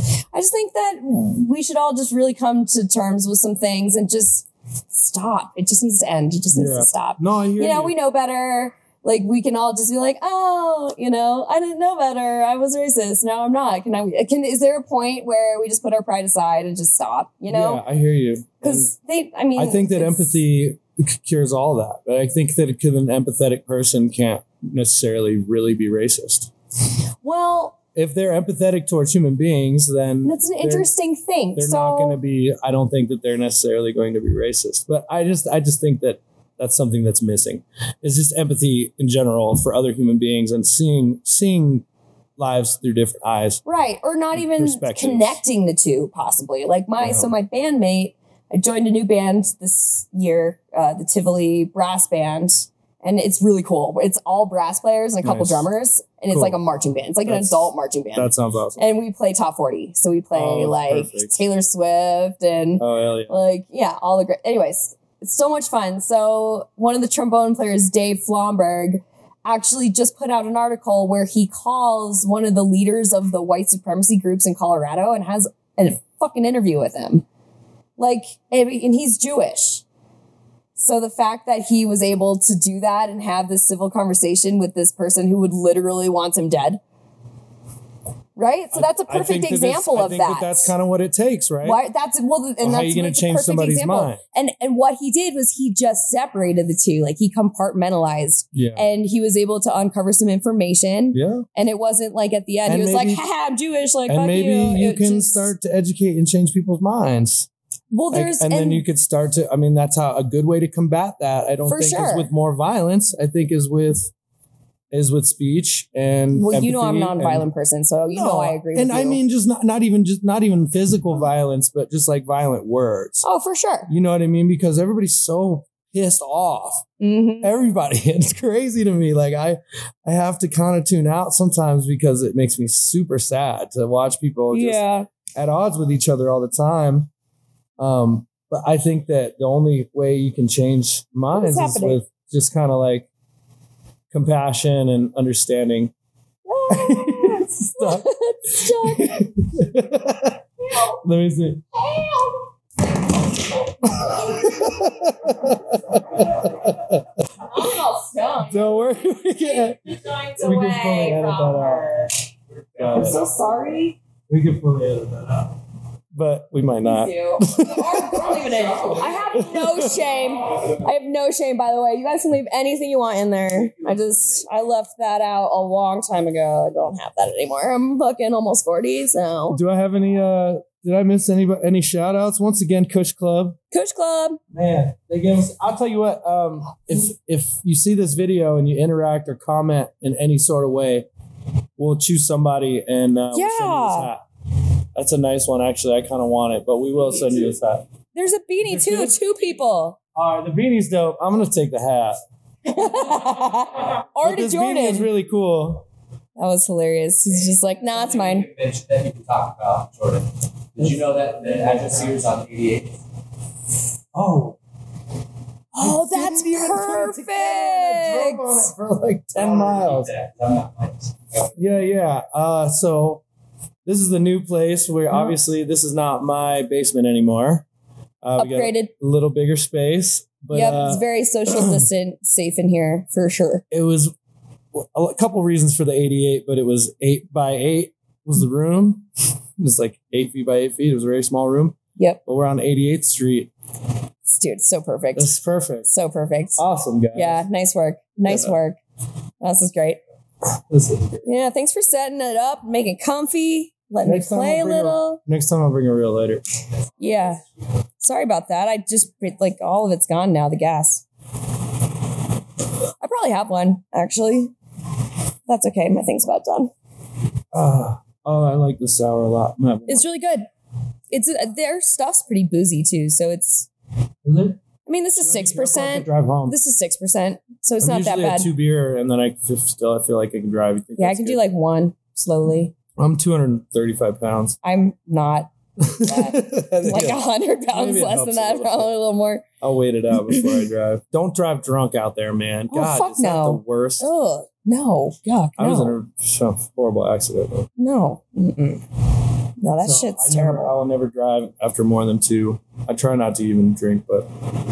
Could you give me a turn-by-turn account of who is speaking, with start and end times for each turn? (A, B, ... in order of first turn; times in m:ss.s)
0:00.3-0:17.8 A
0:06.5-0:07.9 B
0:17.5-0:18.9 B
0:18.6-0:20.4 A
0:19.6-0:26.5 B
0:27.2-0:27.8 A
0:28.0-0:30.9 B
0:30.2-0:32.2 A
0:31.6-0:41.8 B
0:42.4-0:43.6 B
0:43.6-1:17.2 A
0:44.3-0:45.4 B
0:47.0-0:47.3 B
0:55.2-0:55.7 B
0:56.3-0:56.6 B
0:57.3-0:58.8 B
1:00.3-1:01.4 B
1:02.8-1:03.4 B
1:18.0-1:19.8 A
1:20.8-1:26.8 A
1:28.4-1:30.7 A
1:28.7-1:31.8 B
1:31.6-1:45.5 A
1:32.6-1:34.2 B
1:38.5-1:38.9 B
1:41.1-1:41.4 B
1:42.7-1:43.2 B
1:44.1-1:47.5 B
1:47.9-1:48.8 A
1:48.1-1:54.1 B
1:51.7-1:52.3 A
1:54.9-1:57.5 B
1:56.3-1:59.2 A
1:58.1-2:03.2 B
2:03.2-2:03.9 A
2:03.9-2:06.9 B
2:07.0-2:07.5 A
2:07.4-2:14.8 B
2:14.5-2:15.1 A
2:15.4-2:17.1 B
2:17.8-2:23.1 B
2:21.3-2:22.0 A
2:24.1-2:25.9 B
2:26.5-2:29.3 A
2:26.7-2:30.4 B
2:30.6-2:31.0 A
2:31.0-2:31.7 B
2:31.7-2:32.5 A
2:33.8-2:35.0 A
2:34.0-2:37.1 B
2:37.4-2:38.9 A
2:38.5-2:39.8 B
2:39.5-2:42.1 A
2:40.4-2:41.9 B
2:42.8-2:43.2 B
2:42.8-2:44.0 A
2:44.3-2:45.6 B
2:46.1-2:50.2 B
2:46.8-2:59.6 A
2:59.5-3:03.6 B
3:03.7-3:04.4 A
3:04.5-3:11.1 B
3:11.8-3:14.2 B
3:13.3-3:14.1 A
3:15.0-3:17.9 B
3:18.2-3:20.0 A
3:18.6-3:19.2 B
3:20.2-3:22.2 B
3:22.7-3:25.1 A
3:24.2-3:25.8 B
3:26.4-3:28.5 A
3:27.8-3:32.9 C
3:34.1-3:34.6 B
3:35.7-3:40.1 B
3:35.8-3:38.7 A
3:39.4-3:41.5 C
3:41.6-3:43.2 B
3:43.9-3:47.7 B
3:48.2-3:51.9 B
3:48.4-3:48.9 A
3:50.5-3:53.6 A
3:53.7-3:54.1 B
3:54.8-3:59.0 B
3:59.6-4:03.5 B
4:04.3-4:05.3 A
4:05.2-4:05.9 B
4:05.9-4:06.6 A
4:06.6-4:07.4 B
4:07.1-4:08.8 A
4:08.3-4:08.6 B
4:09.4-4:10.0 A
4:10.6-4:11.3 B
4:11.2-4:15.2 A
4:14.0-4:16.4 B
4:17.0-4:17.4 A
4:18.0-4:21.0 A
4:23.0-4:24.5 A
4:25.5-4:26.7 A
4:27.5-4:30.1 B
4:29.9-4:30.5 A
4:31.1-4:33.7 A
4:34.2-4:34.6 B
4:34.9-4:38.5 A
4:35.2-4:36.6 B
4:37.8-4:41.4 B
4:41.0-4:42.7 A
4:43.0-4:44.6 B
4:44.6-4:49.4 A
4:45.8-4:48.9 B
4:49.6-4:54.1 B
4:52.7-4:56.0 A
4:55.6-4:57.7 B
4:57.8-4:58.8 A
4:59.6-5:00.7 A
4:59.8-5:04.3 B